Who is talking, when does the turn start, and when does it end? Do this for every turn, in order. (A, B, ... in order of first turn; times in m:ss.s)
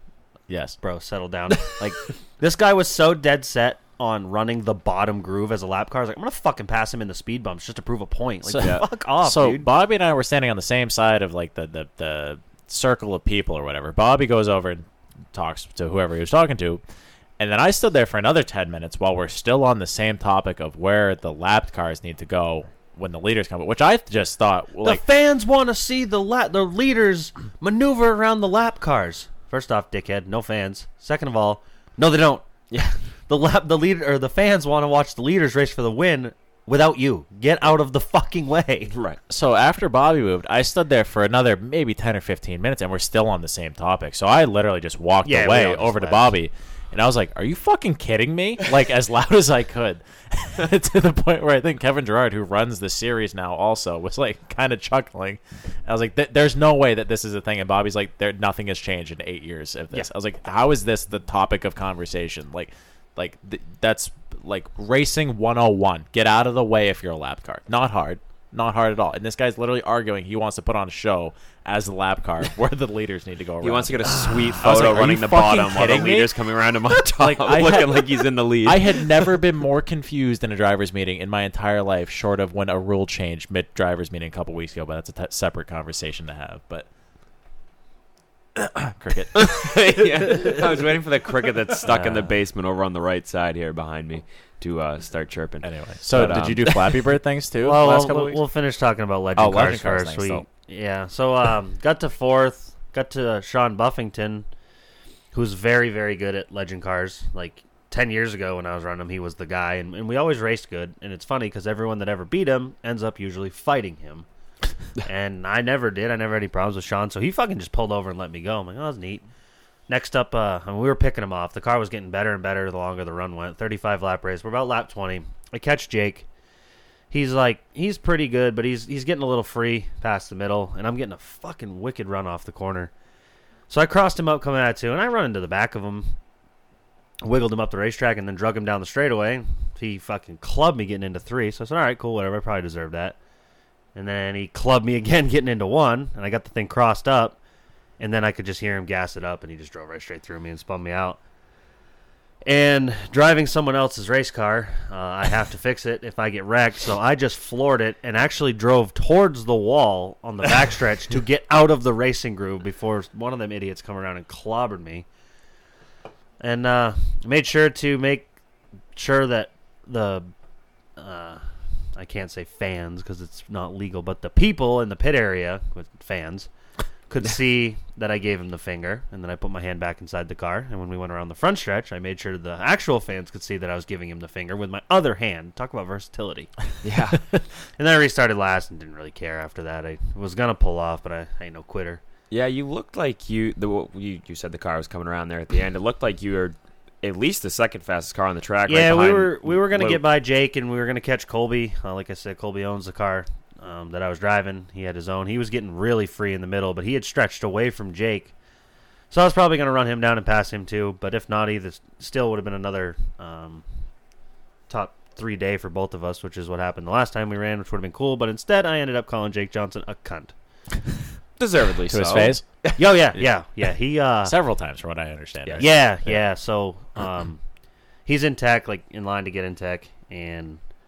0:00.5-0:00.8 A
0:00.8-0:09.7 B
0:08.5-0:16.8 A
0:08.6-0:08.9 C
0:17.4-0:25.0 A
0:24.8-0:32.5 B
0:32.7-0:33.0 C
0:33.3-0:38.9 B
0:38.9-0:39.2 C
0:39.3-1:26.9 A
0:45.2-0:46.4 B
1:13.6-1:19.3 C
1:28.6-1:30.7 A
1:29.3-1:37.0 C
1:31.9-1:32.4 B
1:35.6-1:38.4 A
1:37.6-1:44.5 B
1:39.4-1:40.5 A
1:45.3-1:54.3 B
1:55.0-1:59.2 B
1:59.9-2:06.3 B
2:07.1-2:12.9 B
2:13.7-2:16.2 B
2:17.2-2:23.2 B
2:24.0-2:27.4 B
2:28.0-2:31.2 B
2:32.4-2:45.1 B
2:46.4-2:48.3 B
2:49.0-2:50.3 B
2:51.0-2:51.4 B
2:52.0-2:56.5 B
2:57.1-3:06.5 B
3:06.8-3:07.2 C
3:07.8-3:12.0 B
3:12.3-3:20.0 C
3:18.7-3:28.3 B
3:29.1-3:33.6 B
3:34.7-3:40.3 B
3:41.4-3:42.9 C
3:41.9-3:42.4 A
3:42.8-3:44.4 B
3:44.2-3:45.9 A
3:45.4-3:46.2 C
3:45.6-3:47.4 B
3:48.1-3:50.6 B